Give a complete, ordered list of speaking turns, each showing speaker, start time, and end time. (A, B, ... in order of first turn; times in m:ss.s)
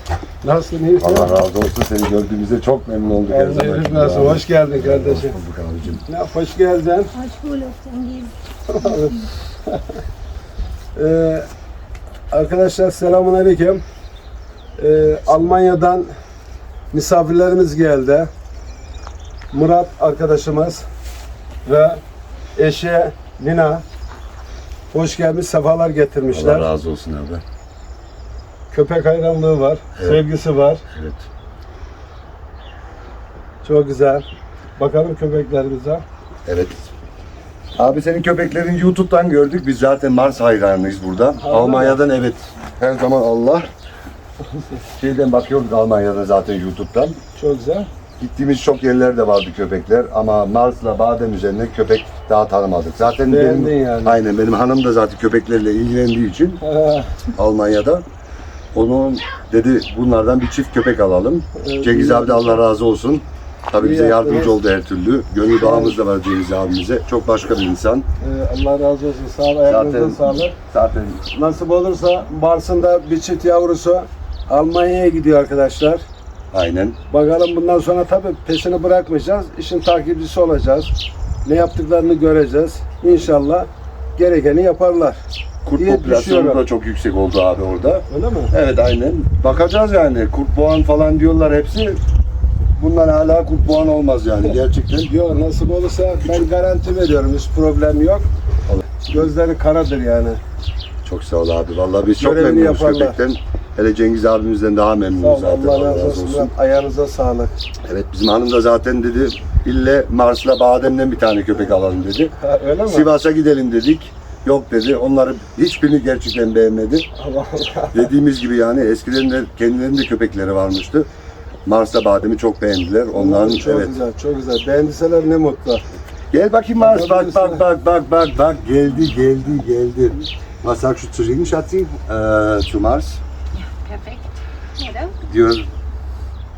0:00.4-0:01.4 A
0:01.0-0:06.0 B
0:03.3-0:05.4 A
0:06.1-0:07.1 A
0:07.2-0:08.3 C
0:08.7-0:10.0 A
0:11.0-0:11.5 A
0:12.3-0:13.8 A
0:14.8-0:16.1 A
0:16.9-0:18.3 A
0:19.5-0:20.9 A
0:21.7-0:22.0 A
0:22.6-0:23.8 A
0:24.9-0:26.7 A
0:26.3-0:27.4 B
0:28.7-0:30.8 A
0:30.0-0:30.2 B
0:30.9-0:31.3 B
0:33.6-0:34.3 A
0:34.8-0:36.0 A
0:36.5-0:36.9 B
0:37.8-0:43.7 B
0:41.4-0:42.0 A
0:44.5-0:44.8 A
0:45.0-0:47.2 B
0:47.4-0:47.9 A
0:48.2-0:56.6 B
0:53.3-0:54.2 A
0:56.6-0:57.3 A
0:57.4-0:58.0 B
0:58.7-1:08.1 B
1:01.6-1:02.6 A
1:03.8-1:04.6 A
1:05.6-1:06.0 A
1:08.2-1:10.6 A
1:09.7-1:11.2 B
1:11.3-1:16.0 A
1:16.5-1:17.0 B
1:17.1-1:20.9 A
1:21.4-1:25.2 A
1:25.6-1:32.0 B
1:25.8-1:26.6 A
1:28.1-1:28.5 A
1:32.8-1:35.1 B
1:35.1-1:38.3 A
1:38.7-1:39.2 B
1:39.1-1:40.4 A
1:41.0-1:46.5 B
1:42.2-1:43.2 A
1:45.2-1:47.6 A
1:47.8-1:52.3 B
1:52.4-1:53.1 A
1:52.9-1:57.1 B
1:57.2-1:58.1 A
1:57.9-2:01.1 B
2:01.7-2:04.0 B
2:03.1-2:05.8 A
2:06.3-2:13.2 B
2:06.8-2:07.7 A
2:13.7-2:14.2 C
2:14.8-2:15.1 C
2:15.2-2:15.7 B